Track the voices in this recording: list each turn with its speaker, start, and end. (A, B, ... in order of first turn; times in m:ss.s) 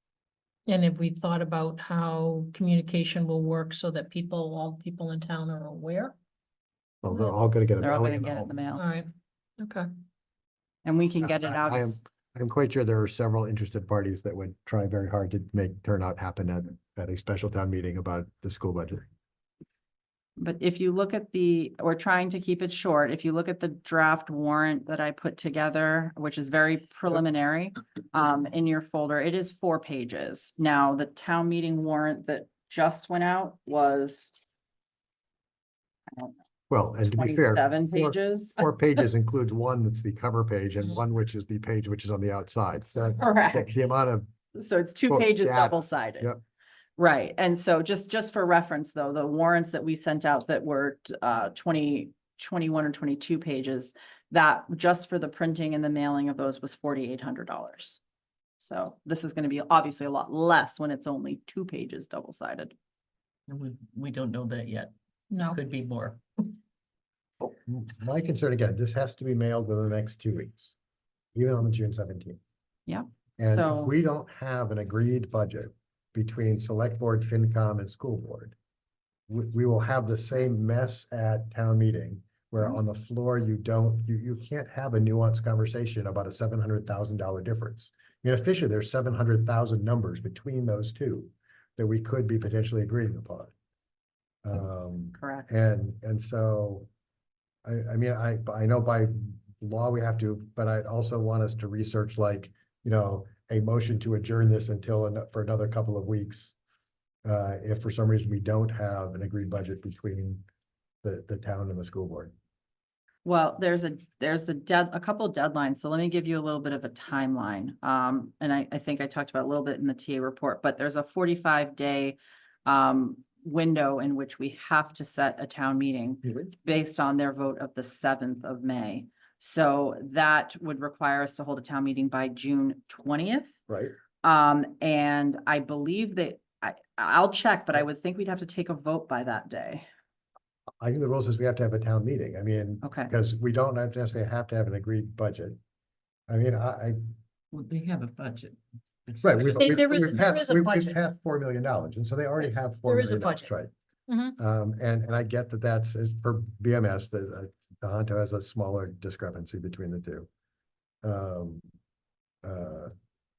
0:00.7-0:06.2 A
0:07.0-0:08.5 B
0:07.1-0:07.3 A
0:07.8-0:08.8 C
0:08.8-0:09.9 A
0:10.8-0:12.0 C
0:11.2-0:19.1 B
0:20.4-0:34.3 C
0:36.7-0:44.3 B
0:37.0-0:38.6 C
0:43.2-0:43.8 C
0:44.6-0:46.3 C
0:45.1-0:46.4 B
0:47.0-0:58.0 C
0:58.6-1:02.7 C
1:03.5-1:04.9 D
1:05.3-1:05.6 A
1:05.5-1:06.2 D
1:07.4-1:10.8 B
1:11.4-1:12.4 B
1:12.9-1:13.9 C
1:13.4-1:18.6 B
1:19.3-1:33.5 B
1:34.4-1:36.9 B
1:35.2-1:35.5 C
1:37.6-1:46.6 B
1:47.2-1:50.4 B
1:51.0-1:52.3 B
1:53.2-2:13.5 C
2:13.7-2:14.0 B
2:14.2-2:19.9 C
2:20.8-2:25.6 B
2:22.8-2:23.1 C
2:26.3-2:27.0 B
2:27.5-2:30.0 D
2:29.2-2:33.7 B
2:29.6-2:31.0 A
2:32.4-2:33.5 A
2:34.1-2:34.4 A
2:34.4-2:40.3 B
2:41.0-2:41.6 B
2:42.4-2:42.9 B